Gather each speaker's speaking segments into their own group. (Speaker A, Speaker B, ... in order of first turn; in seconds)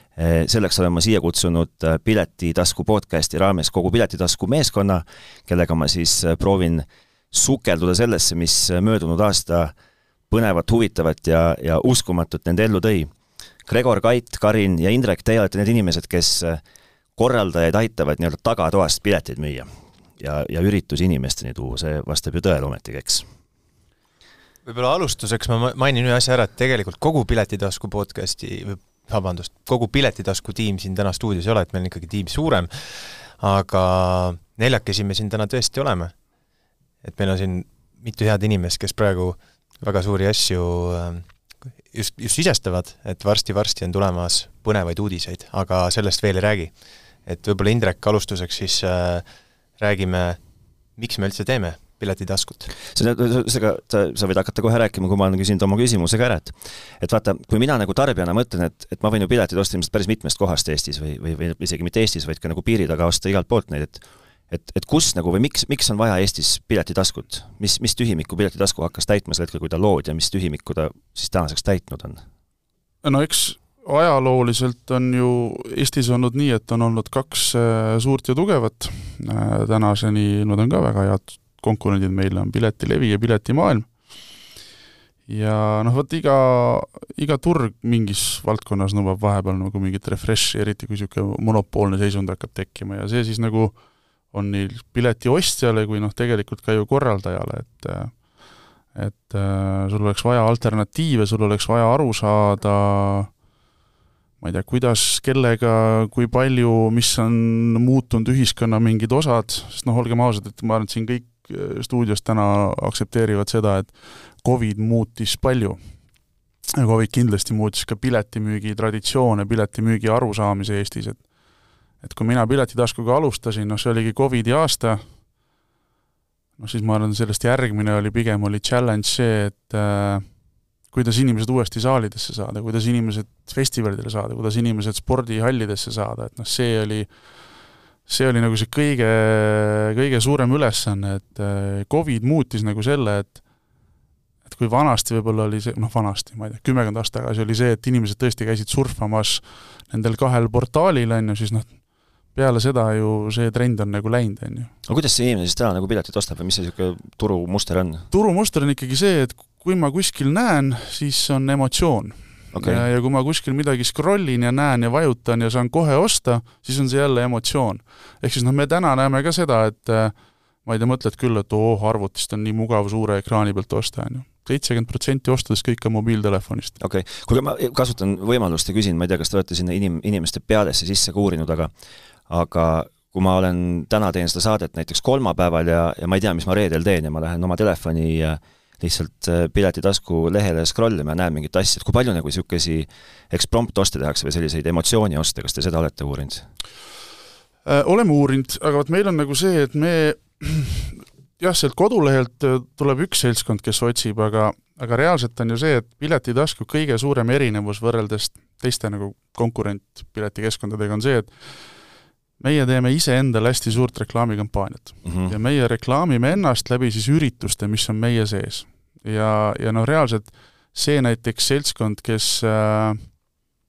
Speaker A: 0.1-9.7, 10.3-13.1, 13.7-16.6, 17.1-19.7, 20.2-23.2, 52.9-72.2, 154.8-158.1, 162.5-162.8, 176.8-181.7, 182.3-196.4, 215.0-215.3
Speaker B: 24.6-36.1, 37.0-49.2, 49.8-50.4, 51.0-52.7
Speaker C: 73.0-84.0, 85.3-93.8, 94.3-103.3, 104.4-115.8, 116.8-121.3, 122.0-125.2, 126.6-130.3, 130.9-137.3, 138.0-143.4, 144.4-154.7, 158.1-176.8, 197.6-211.9, 212.4-223.2